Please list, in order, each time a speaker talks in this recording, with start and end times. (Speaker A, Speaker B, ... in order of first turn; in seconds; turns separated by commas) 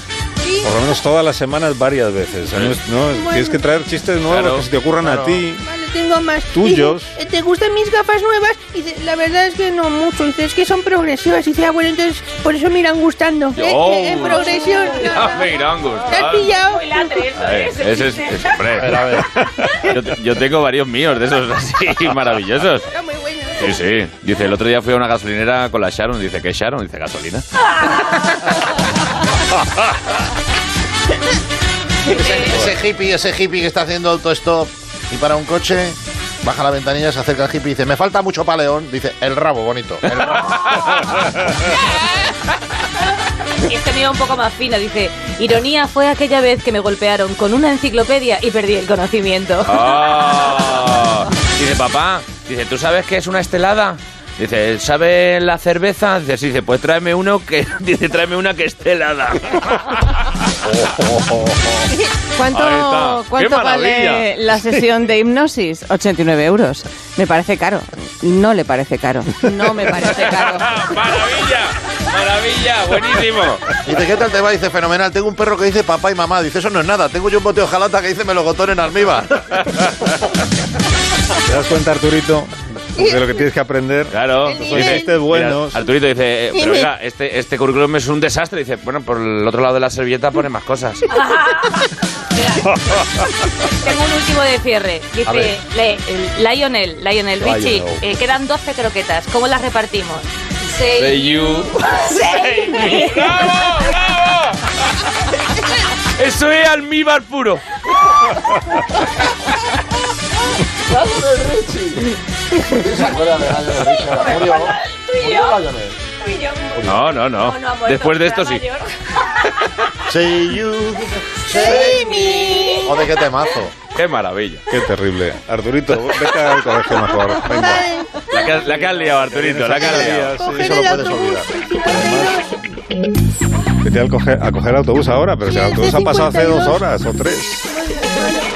Speaker A: 0.6-5.7, Speaker B: 2.5-2.8, Speaker C: 3.1-3.6, Speaker B: 4.3-4.7, Speaker D: 5.0-5.4, Speaker C: 5.6-17.2, Speaker A: 6.5-7.2, Speaker B: 13.6-16.5, Speaker E: 14.4-15.3, Speaker E: 16.6-18.8, Speaker B: 17.4-22.9, Speaker D: 18.8-19.3, Speaker C: 22.9-23.8, Speaker B: 23.6-27.4, Speaker E: 27.8-28.2, Speaker D: 32.0-40.5, Speaker E: 32.1-32.6, Speaker E: 43.6-49.9, Speaker B: 49.7-60.0, Speaker B: 61.1-61.5, Speaker F: 62.3-70.8, Speaker B: 62.5-64.3, Speaker B: 70.1-73.7, Speaker D: 73.9-79.4, Speaker A: 81.4-85.8, Speaker C: 83.0-83.3, Speaker B: 84.1-91.1, Speaker C: 84.5-85.2, Speaker C: 86.5-86.9, Speaker E: 91.1-92.7, Speaker E: 93.8-103.7, Speaker B: 95.3-95.5, Speaker A: 97.4-98.0, Speaker B: 101.0-104.6, Speaker B: 106.2-107.6, Speaker D: 112.8-114.8, Speaker E: 113.8-118.9, Speaker D: 115.4-115.9, Speaker B: 116.8-118.6, Speaker D: 120.1-122.0, Speaker C: 121.5-122.9, Speaker E: 121.8-122.9, Speaker D: 122.8-123.7, Speaker B: 123.9-124.6, Speaker A: 124.7-131.0, Speaker C: 127.5-128.1, Speaker B: 128.3-130.3, Speaker D: 129.8-131.5, Speaker C: 130.3-132.6, Speaker A: 131.8-132.5, Speaker A: 133.8-137.7, Speaker C: 135.5-136.8, Speaker C: 137.9-138.3